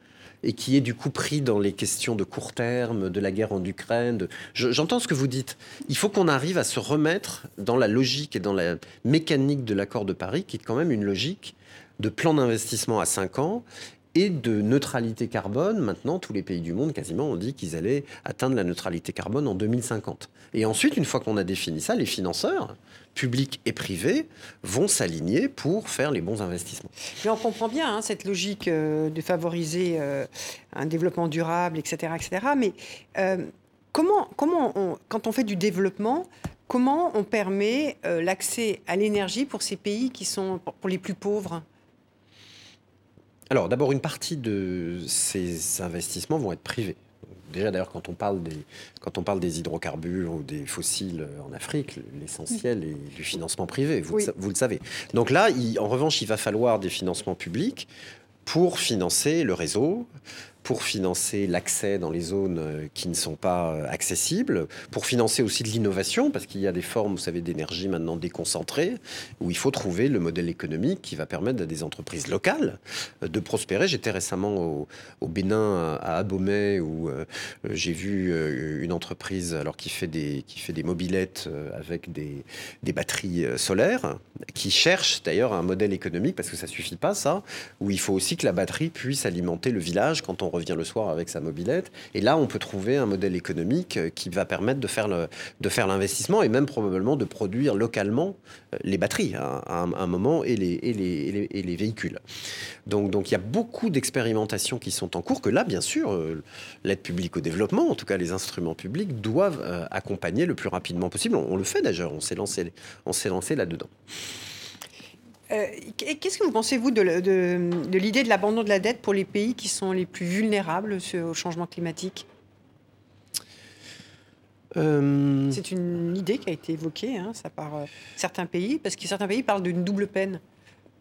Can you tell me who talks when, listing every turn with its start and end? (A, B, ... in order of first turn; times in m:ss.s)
0:00.4-0:26.9 A
0:27.2-0:41.6 B
0:43.5-0:57.9 A
0:58.4-1:00.1 A
1:00.6-1:42.2 A
1:42.8-1:53.9 A
1:55.5-2:02.2 B
2:04.7-2:05.6 A
2:05.5-2:10.4 B